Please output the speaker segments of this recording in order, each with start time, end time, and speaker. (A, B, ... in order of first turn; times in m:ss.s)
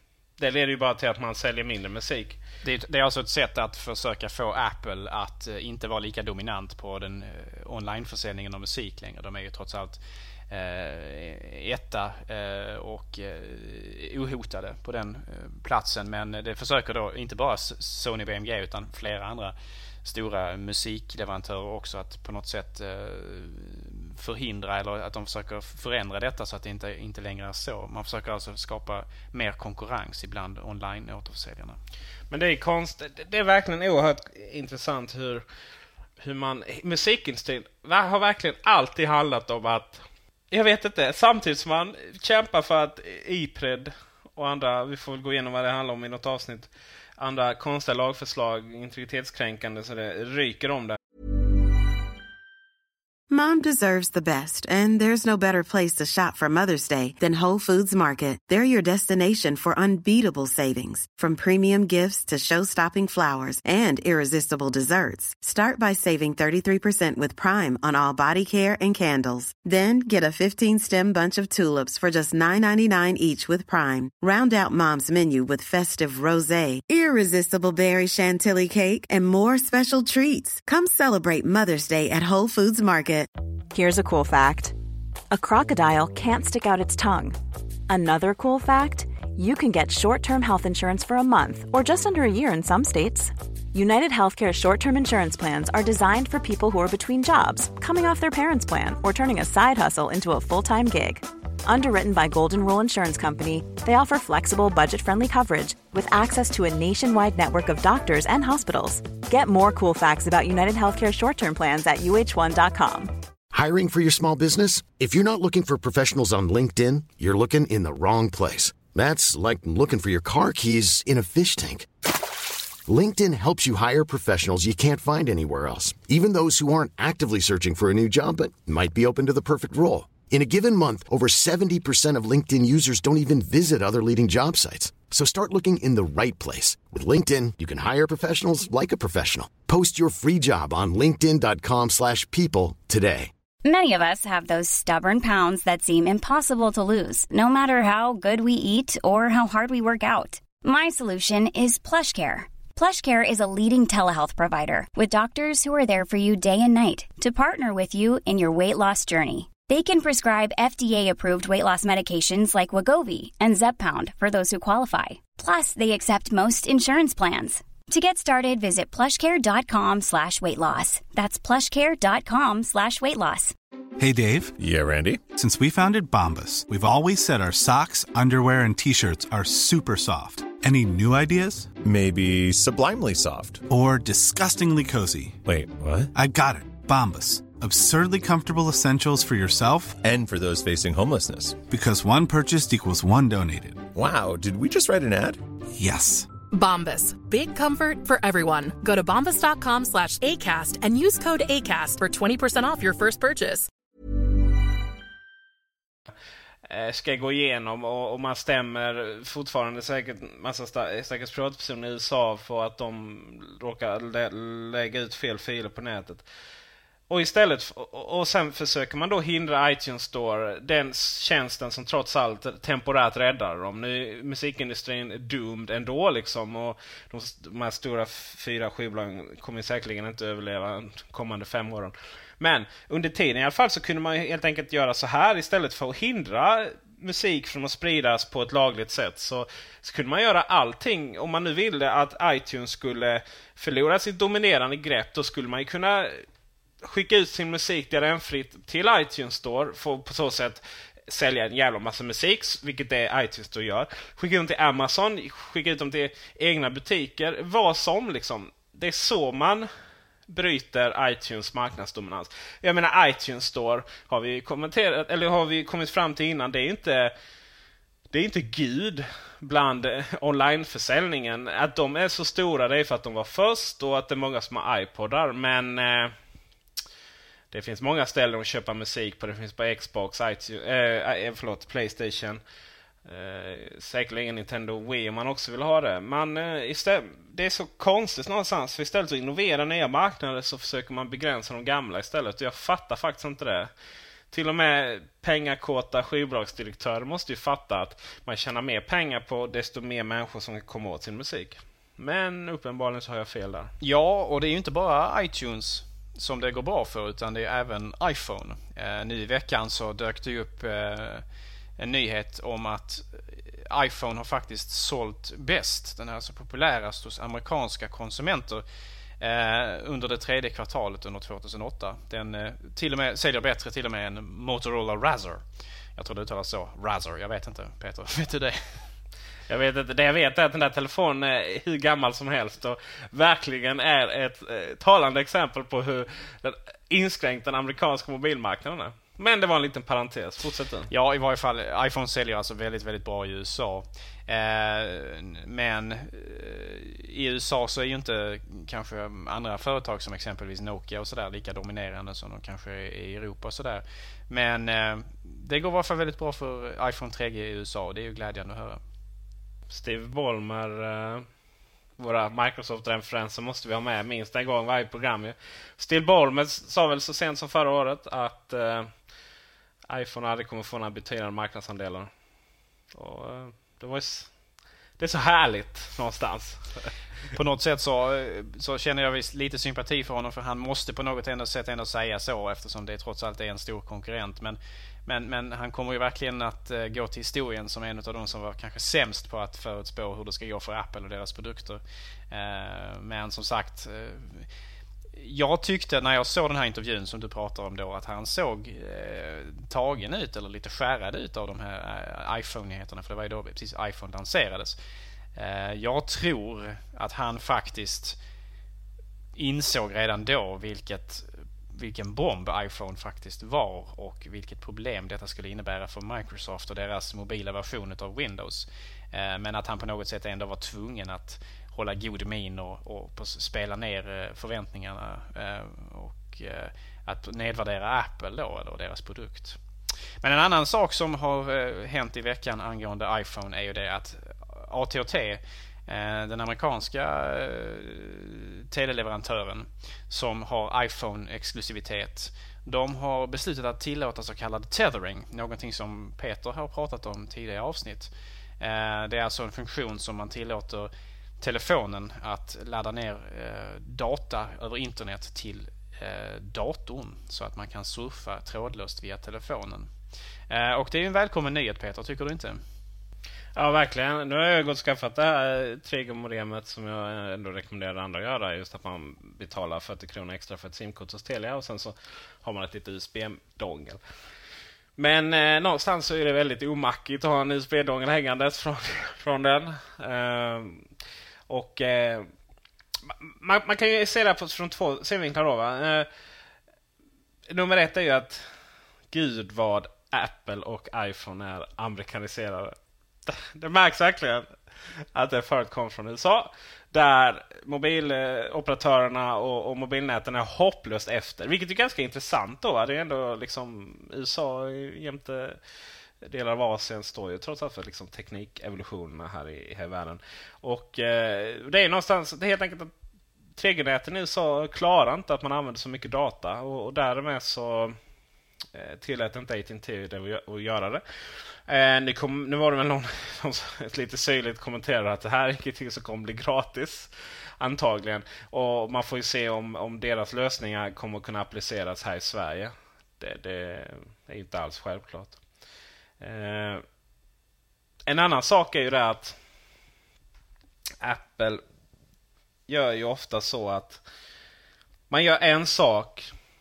0:00.4-0:02.4 A
0:02.6-0:31.8 B
0:32.3-0:35.4 A
0:36.2-0:51.0 A
0:53.3-1:23.3 C
1:23.7-1:24.7 D
1:25.3-1:27.4 D
1:27.9-1:53.1 D
1:53.5-2:01.9 E
2:02.9-2:23.3 E
2:23.6-2:53.5 F
2:54.0-2:54.6 G
2:54.6-2:55.3 H
2:55.4-3:01.7 G
3:01.8-3:03.7 H
3:03.7-3:05.4 G
3:05.4-3:06.1 H
3:06.2-3:10.0 G
3:10.0-3:11.6 H
3:11.7-3:13.8 G
3:13.9-3:15.4 H
3:15.8-3:16.3 G
3:16.5-3:23.7 I
3:26.7-3:36.2 A
3:37.1-4:06.2 A
4:06.8-4:19.7 A
4:20.3-4:27.1 A
4:28.1-4:36.2 A
4:37.5-4:42.4 A
4:43.0-4:53.7 A
4:54.3-5:03.7 A
5:03.8-5:11.2 B
5:11.8-5:18.6 B
5:19.2-5:25.4 B
5:26.0-5:28.8 B
5:29.5-5:40.9 A
5:40.9-5:58.8 B
5:59.7-6:01.3 A
6:02.0-6:08.9 A
6:09.9-6:12.1 A
6:12.9-6:14.3 A
6:15.0-6:16.9 A
6:17.4-6:34.5 B
6:35.2-6:44.8 B
6:45.4-6:48.2 B
6:49.4-7:09.6 B
7:10.2-7:39.9 B
7:40.5-7:42.6 B
7:43.6-7:54.0 A
7:55.0-8:00.9 A
8:01.5-8:02.3 A
8:03.1-8:06.1 A
8:07.5-8:08.5 A
8:09.1-8:12.8 A
8:13.3-8:14.5 A
8:15.1-8:25.6 A
8:26.2-8:32.9 A
8:33.6-8:38.0 A
8:38.7-8:55.4 A
8:56.2-8:56.8 A
8:58.1-8:59.4 A
9:01.0-9:01.6 A
9:02.7-9:04.0 A
9:05.1-9:06.3 A